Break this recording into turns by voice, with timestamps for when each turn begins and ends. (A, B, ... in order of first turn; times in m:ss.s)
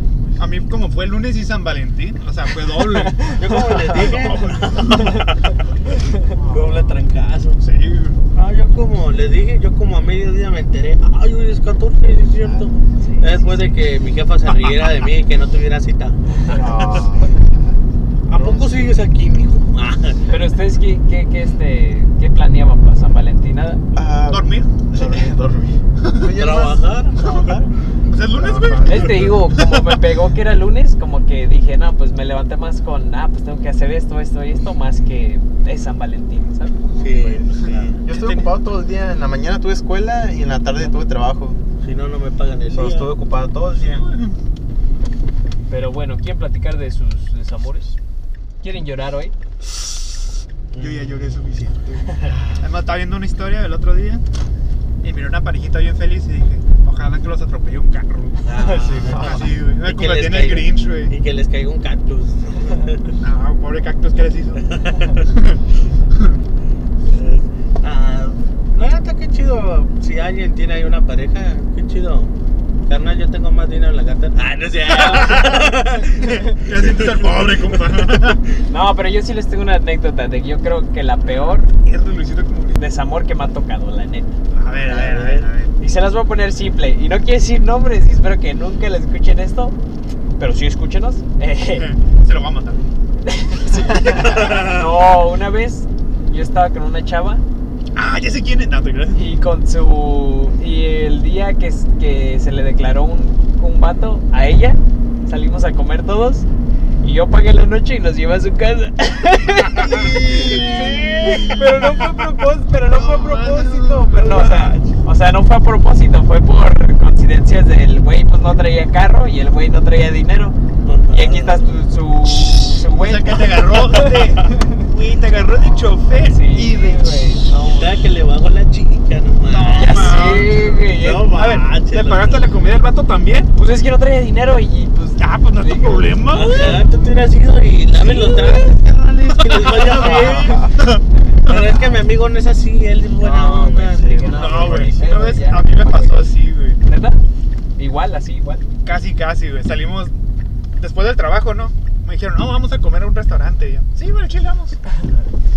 0:00.4-0:05.2 A
0:03.2-0:05.4 B
0:04.9-0:05.3 C
0:05.9-0:06.4 C
0:06.3-0:06.8 A
0:06.5-0:07.6 B
0:07.6-0:08.2 A
0:08.3-0:16.7 B
0:13.0-0:13.4 C
0:16.4-0:17.0 C
0:16.5-0:17.7 D
0:18.3-0:20.3 B
0:18.3-0:18.8 D
0:20.3-0:23.9 C
0:24.0-0:26.8 D
0:24.3-0:24.7 A
0:24.9-0:25.3 C
0:26.0-0:26.4 A
0:26.2-0:27.7 B
0:27.2-0:27.5 A
0:28.1-0:30.0 A
0:28.3-0:29.3 D
0:28.8-0:36.8 C
0:37.0-0:38.0 B
0:37.2-0:41.6 D
0:37.6-0:38.5 A
0:41.8-0:43.1 B
0:42.7-0:44.1 D
0:43.8-0:44.4 A
0:45.7-0:48.0 C
0:48.6-0:49.3 C
0:50.7-0:51.3 B
0:50.8-0:54.2 A
0:52.1-0:52.3 C
0:52.2-0:52.6 D
0:55.0-1:01.1 A
0:58.4-1:03.2 B
0:58.5-0:59.2 C
0:59.1-0:59.5 D
1:03.2-1:05.6 A
1:04.6-1:05.2 B
1:07.0-1:12.3 B
1:12.9-1:18.2 B
1:14.9-1:18.4 A
1:18.7-1:21.7 C
1:21.7-1:22.8 A
1:22.8-1:24.4 C
1:24.5-1:25.5 A
1:24.8-1:25.5 B
1:24.9-1:25.7 D
1:25.8-1:29.8 C
1:30.3-1:31.9 C
1:31.7-1:32.8 A
1:33.2-1:37.4 C
1:33.9-1:34.9 B
1:38.0-1:39.3 A
1:39.1-1:46.5 C
1:47.0-2:00.6 C
1:49.7-1:52.3 A
1:50.0-1:50.8 D
1:52.9-1:54.3 A
1:54.2-1:54.9 B
2:00.8-2:01.8 B
2:01.1-2:04.8 C
2:02.9-2:07.2 A
2:05.6-2:06.0 D
2:06.2-2:08.0 C
2:07.7-2:12.6 B
2:09.5-2:13.5 A
2:09.7-2:11.3 C
2:13.6-2:16.9 C
2:15.2-2:16.8 A
2:16.3-2:20.7 B
2:18.2-2:18.6 A
2:19.3-2:21.9 A
2:20.1-2:20.7 D
2:21.5-2:24.1 B
2:23.2-2:25.2 D
2:23.3-2:26.3 C
2:24.3-2:26.8 A
2:26.8-2:27.2 C
2:27.8-2:28.6 C
2:28.8-2:30.1 A
2:30.8-2:34.8 A